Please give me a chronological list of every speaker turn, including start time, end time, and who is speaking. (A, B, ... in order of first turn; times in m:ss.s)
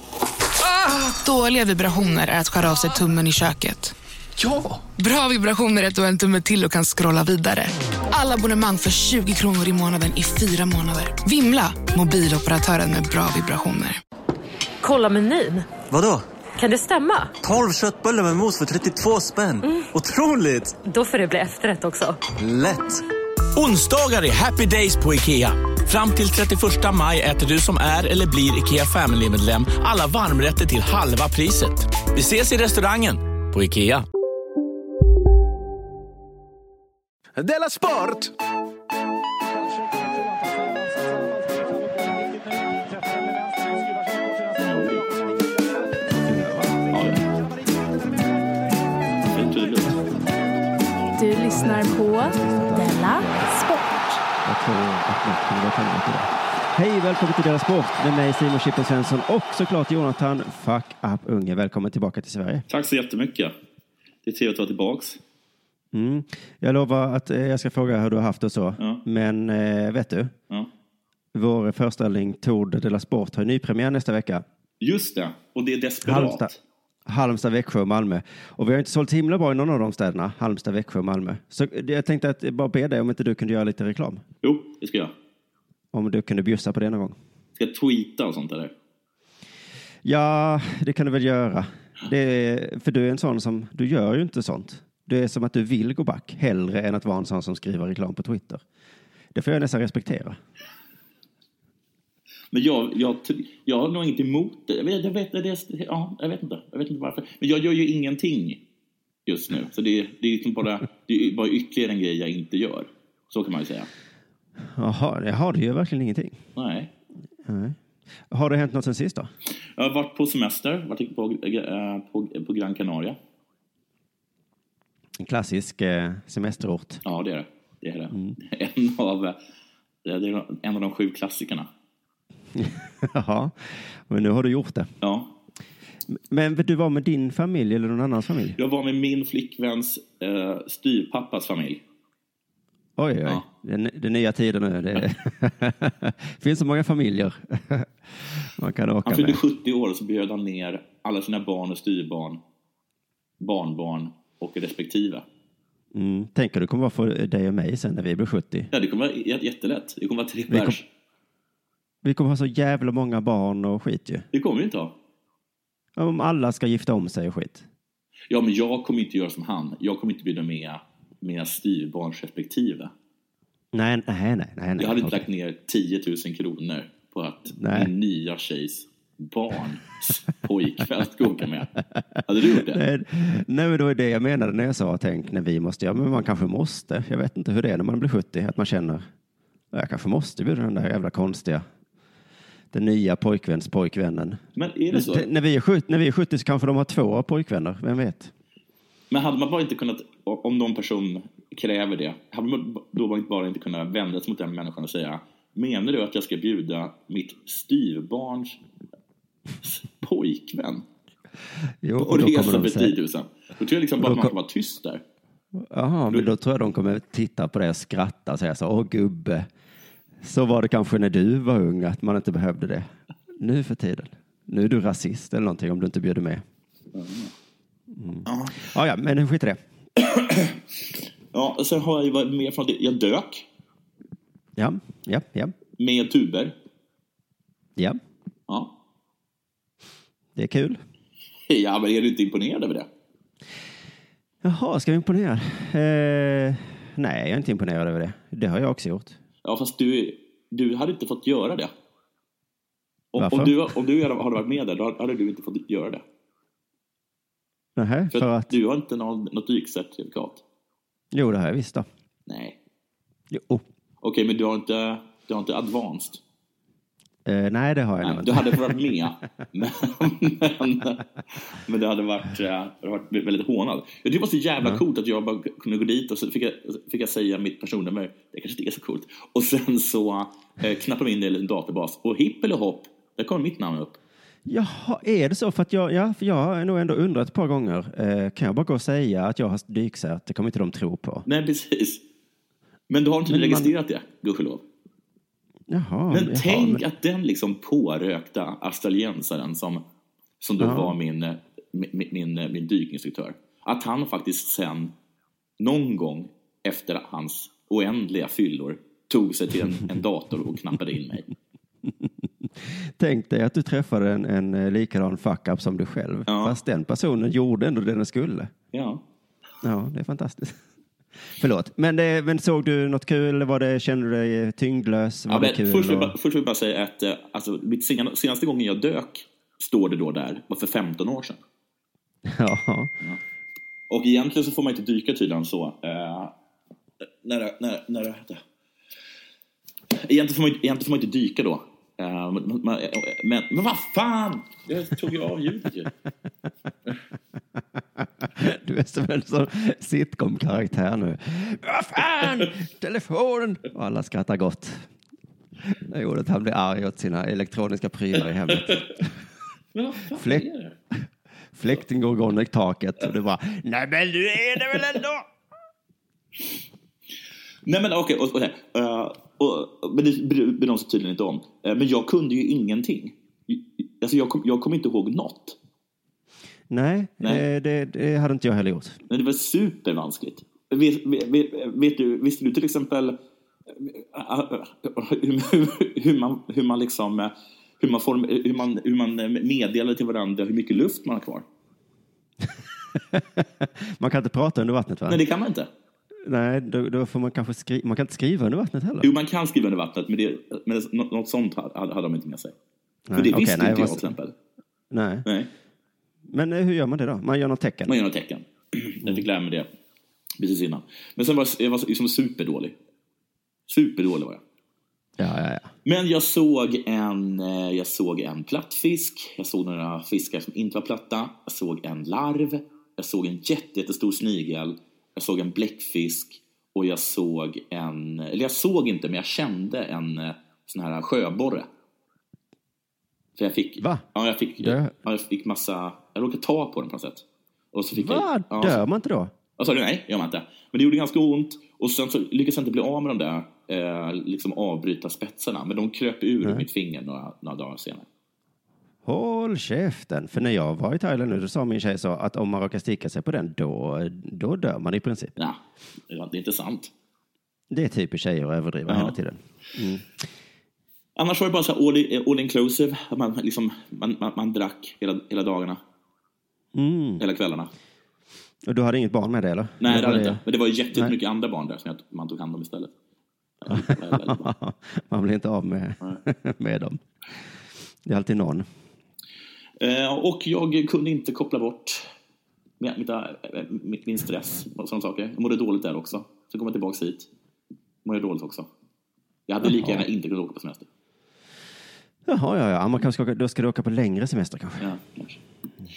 0:00.7-0:03.9 A
0:05.0-0:14.0 A
0:14.8-0:15.8 B
0:15.9-0:16.2 C
0:16.6-0:17.4 B
0:17.4-0:20.7 C
0:19.6-0:19.9 B
0:20.8-0:22.2 B
0:22.4-0:22.8 C
0:23.6-0:34.0 D
0:44.6-0:45.1 E
0:46.3-0:46.6 F
0:46.9-0:47.2 E
0:49.3-0:50.3 E
0:51.2-0:54.1 G
0:51.4-0:53.7 F
0:54.4-1:02.6 F
1:02.7-1:03.5 E
1:04.2-1:05.2 E
1:05.9-1:10.3 F
1:11.3-1:14.4 F
1:14.8-1:16.6 E
1:16.0-1:16.5 F
1:17.1-1:24.2 F
1:24.4-1:25.1 E
1:25.9-1:27.2 F
1:27.6-1:28.7 E
1:30.0-1:38.6 F
1:39.3-1:40.4 F
1:42.5-1:48.6 E
1:49.2-1:53.9 E
1:54.7-1:56.4 F
1:56.6-1:56.9 E
1:57.4-1:57.8 F
1:58.3-1:59.3 F
1:59.8-2:03.2 E
2:05.2-2:07.0 F
2:07.0-2:09.4 E
2:08.1-2:08.4 F
2:10.0-2:11.7 E
2:12.5-2:13.5 F
2:14.1-2:14.9 F
2:15.0-2:15.3 E
2:16.1-2:18.6 F
2:18.6-2:21.8 E
2:23.0-2:29.4 F
2:29.0-2:32.4 E
2:33.4-2:35.2 E
2:35.9-2:38.7 F
2:38.7-2:40.8 E
2:40.5-2:40.8 F
2:42.0-2:44.2 F
2:44.3-2:44.9 E
2:46.0-2:47.6 F
2:48.3-2:52.9 E
2:53.7-2:55.2 F
2:54.8-3:01.7 E
2:57.6-2:57.9 F
3:02.2-3:02.8 E
3:02.4-3:09.1 F
3:09.7-3:11.6 F
3:12.7-3:18.3 F
3:14.6-3:15.3 E
3:19.1-3:28.6 E
3:29.6-3:30.8 E
3:31.8-3:32.9 F
3:32.0-3:35.0 E
3:34.0-3:34.3 F
3:35.6-3:39.5 F
3:40.2-3:42.9 F
3:43.4-3:46.4 F
3:46.9-3:47.3 E
3:47.9-3:49.6 F
3:48.2-3:48.6 E
3:50.0-3:50.6 E
3:51.3-3:53.4 E
3:54.6-3:55.5 F
3:55.8-3:56.5 E
4:00.4-4:00.8 F
4:01.5-4:02.9 E
4:04.4-4:09.2 F
4:09.4-4:11.7 E
4:13.1-4:16.0 E
4:13.2-4:13.5 F
4:17.8-4:18.5 F
4:18.1-4:20.4 E
4:21.1-4:21.8 F
4:22.3-4:22.6 E
4:23.3-4:23.6 F
4:24.0-4:26.2 E
4:27.2-4:28.8 F
4:28.0-4:44.0 E
4:44.4-4:51.2 F
4:51.2-4:52.0 E
4:52.9-4:54.6 E
4:53.3-4:53.7 F
4:55.7-4:56.8 F
4:56.1-4:59.8 E
5:00.4-5:04.9 E
5:00.6-5:00.9 F
5:05.6-5:11.3 E
5:12.0-5:18.5 F
5:16.3-5:16.6 E
5:18.7-5:19.0 E
5:19.6-5:20.6 F
5:21.4-5:26.1 F
5:25.3-5:31.4 E
5:32.2-5:32.9 F
5:33.9-5:36.3 E
5:37.2-5:38.4 E
5:39.9-5:45.9 E
5:48.2-5:54.8 F
5:55.6-5:59.2 F
5:59.7-6:00.8 E
6:00.2-6:01.0 F
6:01.6-6:05.2 F
6:07.6-6:15.6 E
6:16.7-6:19.0 F
6:19.1-6:23.2 E
6:23.8-6:31.4 E
6:33.1-6:35.2 F
6:35.1-6:35.7 E
6:36.2-6:39.1 F
6:39.0-6:42.5 E
6:43.1-6:44.1 F
6:43.2-6:44.3 E
6:44.9-6:45.2 F
6:45.2-6:45.5 E
6:46.3-6:48.0 F
6:47.9-6:49.7 E
6:50.4-6:52.7 E
6:53.7-6:54.4 E
6:55.2-6:55.7 F
6:55.8-7:11.7 E
7:13.4-7:18.8 E
7:14.6-7:14.9 F
7:17.9-7:19.3 F
7:19.6-7:28.1 E
7:29.0-7:35.3 F
7:35.4-7:36.9 E
7:37.7-7:40.1 F
7:38.9-7:39.2 E
7:41.2-7:45.8 E
7:46.7-7:47.2 F
7:47.2-7:47.7 E
7:48.6-7:50.4 F
7:49.8-7:52.9 E
7:53.6-7:54.5 E
7:53.7-7:57.0 F
7:58.0-7:58.6 F
7:59.8-8:02.1 E
8:02.8-8:07.3 E
8:08.0-8:08.7 E
8:09.5-8:10.9 E
8:09.6-8:10.0 F
8:12.2-8:14.8 F
8:14.8-8:15.4 E